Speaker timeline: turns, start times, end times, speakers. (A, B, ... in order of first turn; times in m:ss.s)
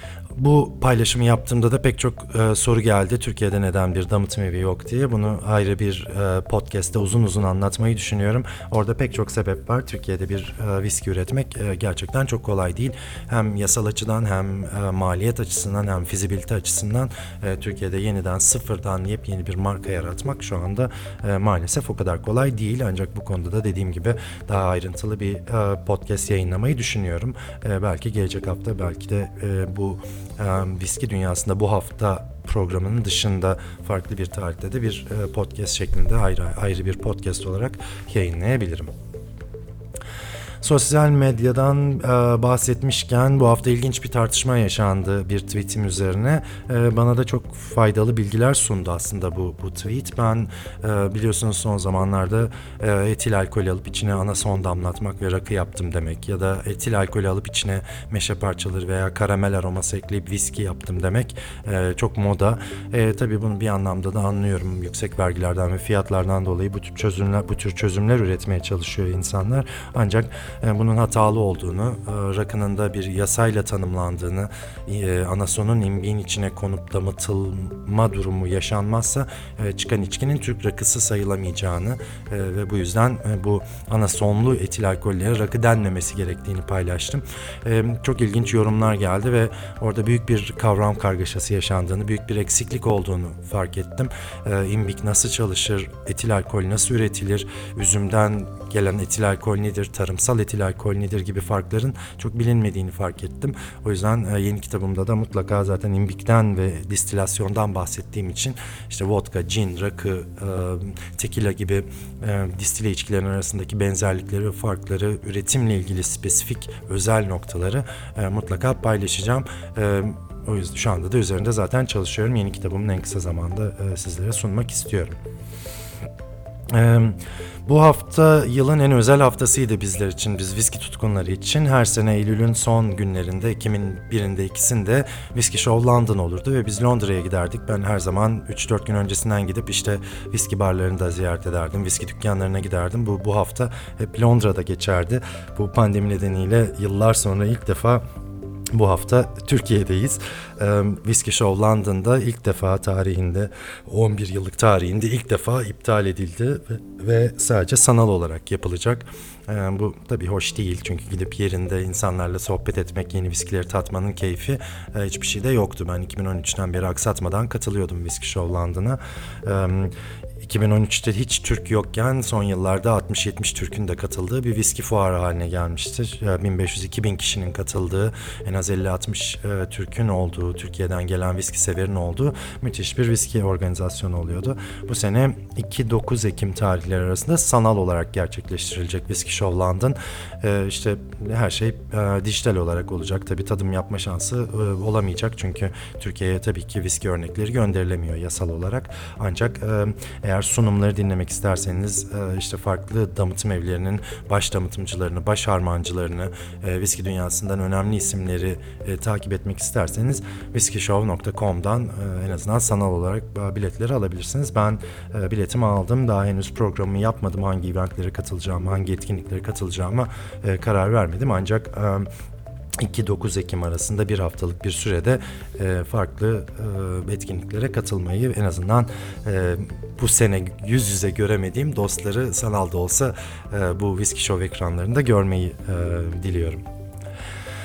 0:00.3-0:38.9 A
0:40.6-2:05.1 A
2:06.7-2:28.0 A
2:28.7-3:42.1 A
3:42.8-3:56.6 A